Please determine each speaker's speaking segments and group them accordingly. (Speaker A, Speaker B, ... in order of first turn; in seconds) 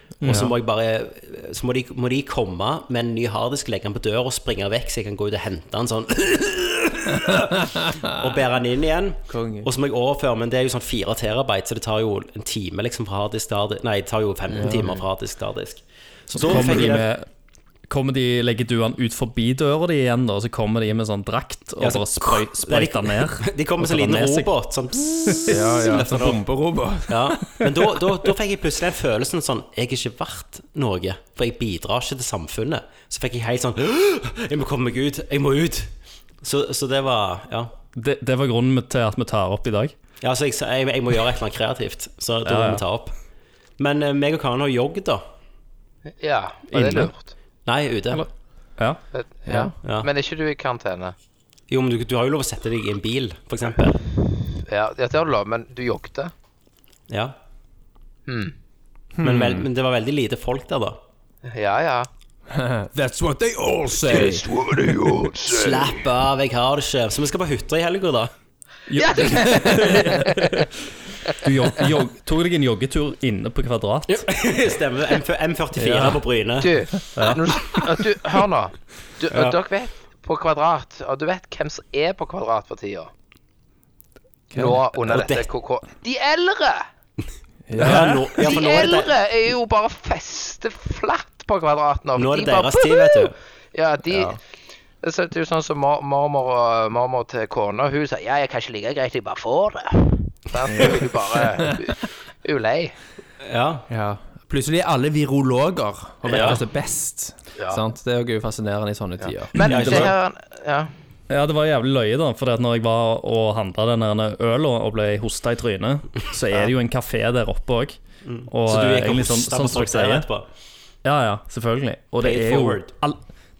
Speaker A: 0.2-0.5, 16.3-17.3, 17.9-24.5, 38.0-39.9, 42.4-42.8, 46.7-47.1, 48.1-49.0, 68.9-70.7, 71.4-74.3, 75.8-76.2, 77.1-77.4, 111.3-120.3, 121.0-123.2
Speaker B: 0.2-0.5, 7.3-7.9, 9.3-9.7, 14.5-15.0, 16.5-16.9, 25.5-27.6, 49.5-49.7, 59.2-59.6, 62.5-65.3, 84.5-84.8, 87.7-88.2, 94.1-94.4, 100.7-101.0, 103.9-110.1
Speaker C: 0.2-17.1, 21.8-26.4, 27.1-35.9, 36.4-37.7, 40.2-43.1, 43.8-45.2, 47.7-48.2, 51.7-54.0, 59.2-61.0, 65.5-68.3, 74.1-76.7, 79.3-79.6, 85.0-85.5, 87.8-89.1, 92.2-93.3, 103.4-103.9, 106.3-106.6, 109.7-110.1, 118.2-120.5, 122.2-122.9
Speaker D: 46.2-47.3, 49.1-51.1, 54.7-56.3, 58.3-58.5, 61.5-62.1, 64.1-65.8, 69.0-70.5, 76.6-83.1, 84.5-86.9, 88.4-94.4, 95.0-103.0, 106.3-106.6, 109.2-110.9